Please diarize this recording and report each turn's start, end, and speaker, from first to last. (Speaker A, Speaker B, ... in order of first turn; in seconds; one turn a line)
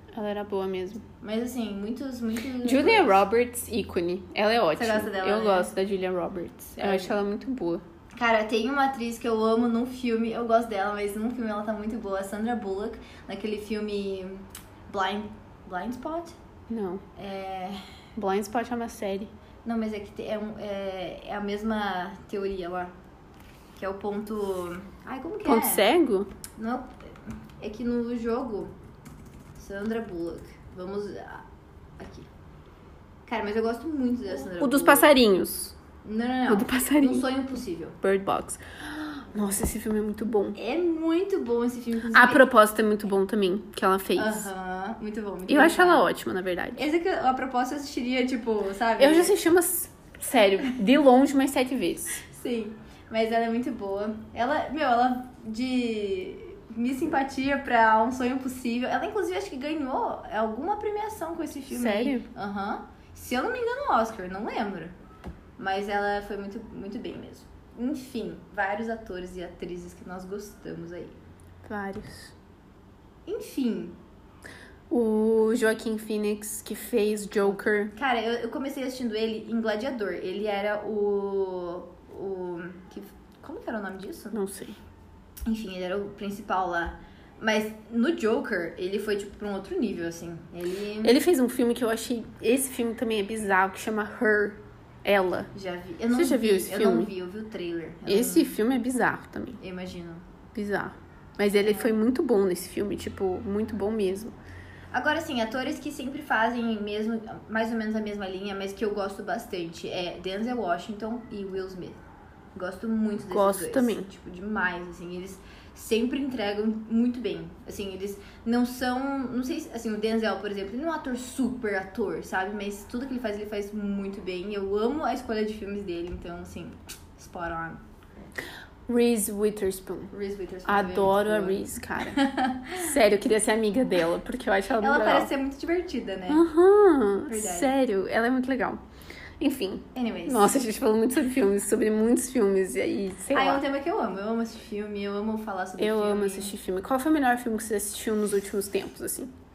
Speaker A: 0.1-1.0
Speaker B: 1.2-3.2
Speaker A: 2.6-7.8
Speaker B: 4.8-5.7
Speaker B: 6.8-7.2
Speaker B: 8.2-16.4
Speaker A: 16.7-17.0
Speaker B: 17.2-17.8
Speaker A: 18.2-19.3
Speaker B: 19.6-22.9
Speaker B: 23.8-25.9
Speaker A: 25.4-26.3
Speaker B: 26.6-28.7
Speaker B: 29.6-31.4
Speaker B: 32.0-32.3
Speaker B: 33.3-35.1
Speaker A: 34.4-35.8
Speaker B: 36.0-38.0
Speaker A: 36.5-37.3
Speaker A: 38.0-40.6
Speaker B: 40.6-42.5
Speaker A: 42.1-44.5
Speaker B: 44.2-46.1
Speaker A: 45.5-46.9
Speaker B: 46.8-49.4
Speaker A: 49.0-52.2
Speaker B: 52.2-64.9
Speaker A: 61.7-62.3
Speaker B: 65.6-71.2
Speaker A: 71.7-72.3
Speaker B: 73.3-74.0
Speaker A: 74.9-77.9
Speaker B: 77.5-84.4
Speaker A: 84.3-84.8
Speaker B: 85.5-91.2
Speaker A: 91.0-95.5
Speaker B: 95.5-98.6
Speaker A: 96.1-97.1
Speaker A: 98.1-99.6
Speaker B: 99.6-100.2
Speaker A: 100.5-104.3
Speaker B: 101.5-102.0
Speaker B: 104.9-112.0
Speaker B: 112.5-127.8
Speaker A: 113.3-114.1
Speaker A: 128.9-130.1
Speaker B: 130.1-132.9
Speaker A: 130.7-135.3
Speaker B: 134.8-136.4
Speaker A: 136.3-138.8
Speaker B: 137.3-137.7
Speaker A: 139.4-143.6
Speaker B: 139.9-140.6
Speaker B: 143.3-146.5
Speaker A: 145.8-149.3